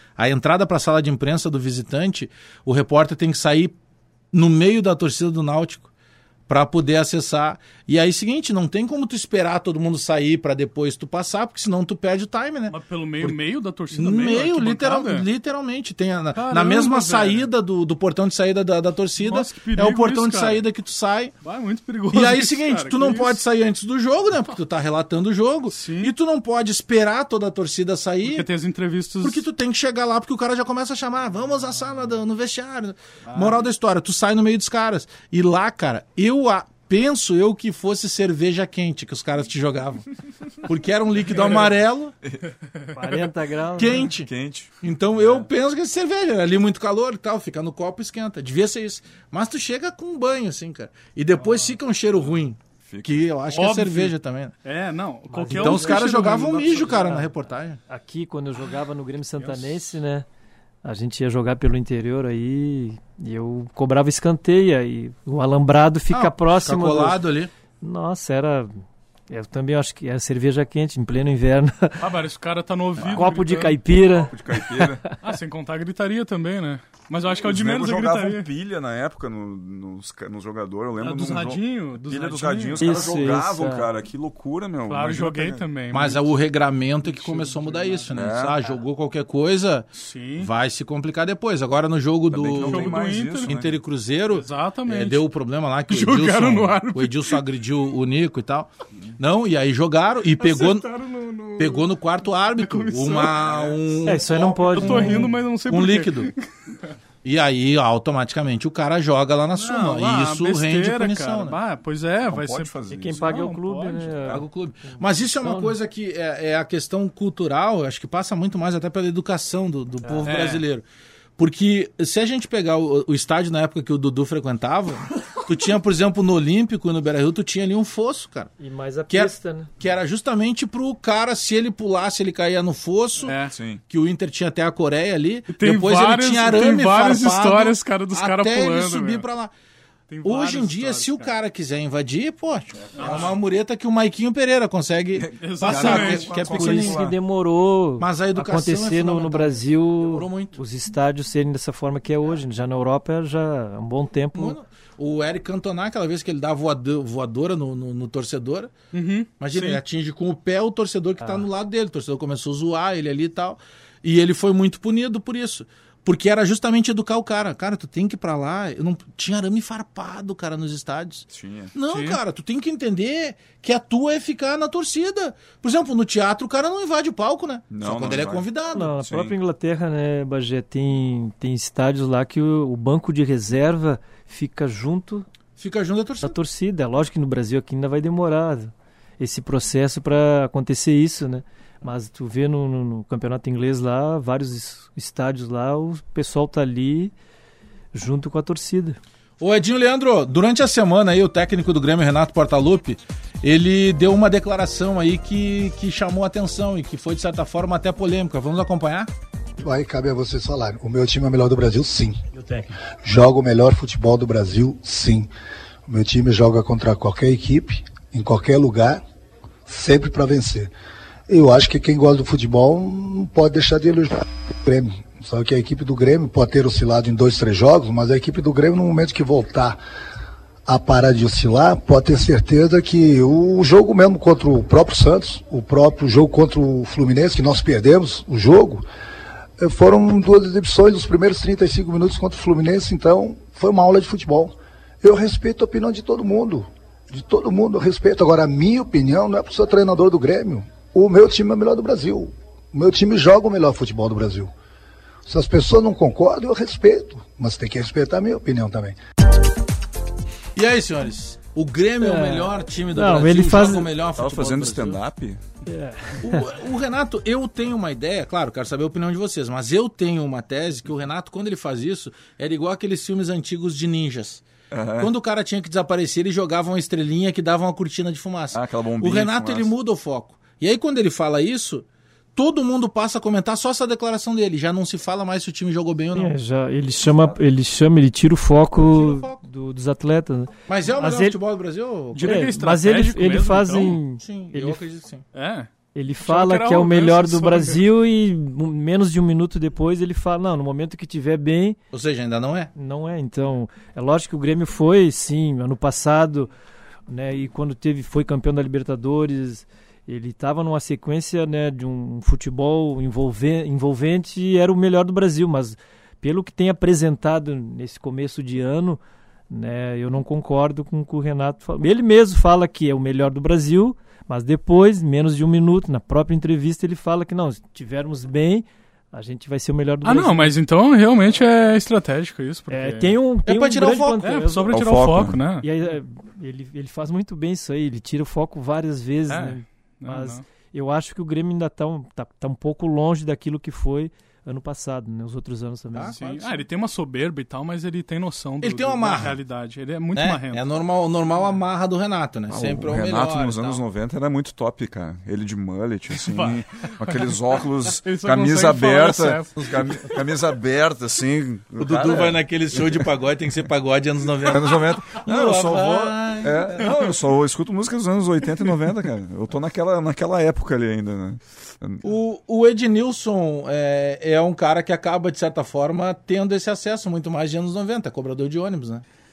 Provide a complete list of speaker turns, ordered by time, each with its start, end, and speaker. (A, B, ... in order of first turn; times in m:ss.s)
0:00.2-0:03.8 A
0:04.3-0:05.9 A
0:06.5-0:13.4 A
0:12.7-0:15.3 B
0:13.9-0:21.3 A
0:16.3-0:17.5 B
0:19.2-0:20.7 B
0:21.4-0:23.4 B
0:22.1-0:28.5 A
0:25.7-0:26.1 B
0:28.2-0:29.4 B
0:29.2-0:40.1 A
0:40.6-0:42.1 A
0:42.2-0:42.5 C
0:42.9-0:44.1 D
0:43.8-0:44.3 A
0:44.0-0:45.5 C
0:44.8-0:54.5 A
0:52.8-0:53.3 C
0:53.5-0:57.2 B
0:55.3-0:57.3 D
0:55.5-0:57.8 A
0:57.9-1:00.3 D
0:59.4-0:59.8 B
1:00.8-1:07.2 D
1:06.1-1:07.5 A
1:07.8-1:12.0 D
1:12.0-1:13.8 B
1:13.1-1:15.2 D
1:14.0-1:15.0 C
1:15.2-1:18.5 B
1:17.3-1:25.6 C
1:21.0-1:23.1 B
1:22.8-1:23.9 D
1:24.9-1:26.3 B
1:25.9-1:29.9 A
1:27.0-1:28.2 B
1:28.1-1:28.6 C
1:30.0-1:30.5 B
1:30.4-1:40.9 A
1:32.3-1:33.8 C
1:32.6-1:33.5 B
1:34.3-1:35.2 B
1:35.9-1:37.4 B
1:40.4-1:41.9 B
1:41.6-1:46.3 A
1:42.6-1:43.5 B
1:43.3-1:43.8 C
1:44.1-1:45.3 D
1:44.8-1:46.5 B
1:47.2-1:51.6 A
1:49.6-1:54.3 B
1:52.3-1:53.3 C
1:52.9-1:55.8 D
1:54.3-2:00.8 A
2:00.2-2:00.6 B
2:01.4-2:08.5 A
2:08.6-2:09.7 D
2:09.1-2:13.4 A
2:13.2-2:13.6 B
2:13.5-2:13.8 C
2:13.9-2:19.5 A
2:15.5-2:19.3 B
2:20.1-2:21.4 B
2:20.2-2:27.1 A
2:22.8-2:23.3 C
2:23.0-2:23.4 B
2:25.1-2:27.2 C
2:25.4-2:26.4 B
2:26.4-2:34.6 D
2:28.0-2:30.6 A
2:34.4-2:38.7 A
2:38.9-2:39.8 B
2:39.4-2:58.9 A
2:51.3-2:51.7 C
2:51.9-2:52.2 B
2:57.7-2:59.4 C
2:58.7-3:05.3 D
3:05.6-3:06.4 A
3:06.2-3:17.1 D
3:17.9-3:19.0 D
3:19.4-3:29.1 A
3:29.6-3:32.2 E
3:33.0-3:35.3 E
3:35.9-3:39.0 E
3:39.7-3:40.7 E
3:41.3-3:49.8 E
3:50.7-3:58.8 E
3:59.6-4:14.5 E
4:15.3-4:19.0 E
4:20.6-4:25.0 A
4:22.0-4:23.9 D
4:24.2-4:25.4 C
4:25.7-4:26.5 D
4:26.2-4:34.4 A
4:34.7-4:35.1 C
4:35.0-4:46.4 A
4:38.5-4:39.7 C
4:46.1-4:51.4 D
4:48.8-4:49.4 A
4:50.7-4:52.4 A
4:52.1-4:54.0 B
4:52.2-4:54.8 D
4:54.2-4:55.2 A
4:55.3-4:55.7 B
4:56.0-5:01.8 D
4:56.2-4:57.8 B
5:01.9-5:02.7 A
5:02.8-5:06.5 D
5:07.1-5:30.6 D
5:30.0-5:33.2 B
5:32.7-5:34.7 D
5:33.5-5:34.2 A
5:34.2-5:35.7 B
5:34.7-5:35.4 C
5:35.6-5:46.2 D
5:39.3-5:40.4 B
5:45.9-5:46.6 A
5:46.1-5:50.6 B
5:48.6-5:49.4 A
5:50.2-5:53.8 A
5:52.5-6:03.0 C
5:56.1-5:57.3 B
5:58.0-6:00.0 B
6:01.8-6:06.9 A
6:04.4-6:12.0 C
6:06.8-6:07.1 B
6:12.0-6:19.0 A